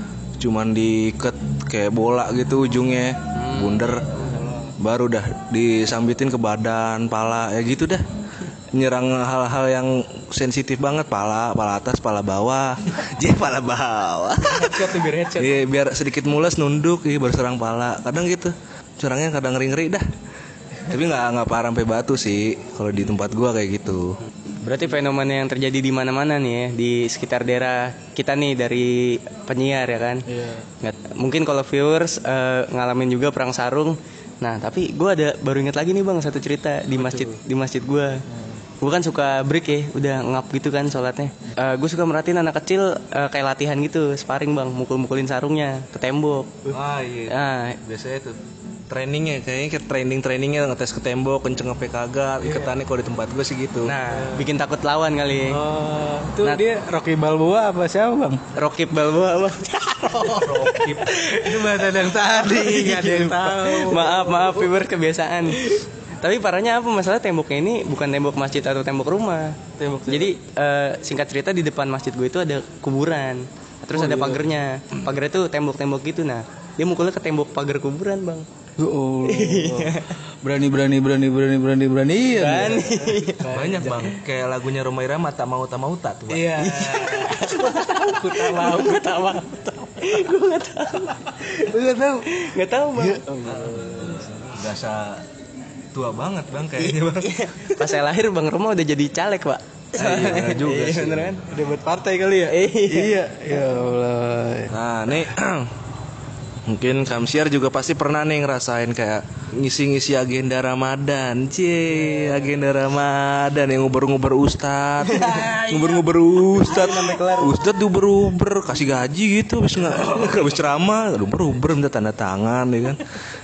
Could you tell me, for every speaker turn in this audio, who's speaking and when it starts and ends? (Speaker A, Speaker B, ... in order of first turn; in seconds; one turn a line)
Speaker A: 0.4-4.2
Speaker B: 3.4-4.0
Speaker C: 4.1-4.7
Speaker A: 4.8-8.0
Speaker A: 8.7-20.1
Speaker B: 14.4-15.6
Speaker A: 20.9-24.2
Speaker B: 24.6-30.2
Speaker C: 30.3-30.7
Speaker B: 30.8-38.2
Speaker C: 37.0-37.4
Speaker C: 38.3-38.6
Speaker B: 38.8-46.6
Speaker A: 46.7-48.4
Speaker B: 47.3-47.8
Speaker A: 48.9-54.0
Speaker C: 52.4-52.7
Speaker B: 53.8-55.6
Speaker C: 54.1-54.5
Speaker C: 55.5-58.4
Speaker B: 58.5-60.7
Speaker C: 60.0-64.8
Speaker A: 60.2-61.2
Speaker B: 62.4-78.5
Speaker C: 69.8-70.3
Speaker C: 73.9-74.5
Speaker C: 78.8-84.2
Speaker B: 79.2-80.2
Speaker B: 82.3-83.5
Speaker A: 83.5-87.1
Speaker C: 86.3-90.3
Speaker B: 86.6-91.6
Speaker C: 91.3-92.3
Speaker B: 92.3-93.3
Speaker C: 93.0-94.4
Speaker A: 93.4-95.2
Speaker A: 95.9-97.4
Speaker B: 96.8-101.4
Speaker A: 100.0-101.5
Speaker C: 101.5-104.7
Speaker B: 102.5-103.2
Speaker A: 104.7-105.7
Speaker A: 106.7-123.2
Speaker B: 115.0-117.6
Speaker C: 115.1-116.0
Speaker C: 119.8-120.5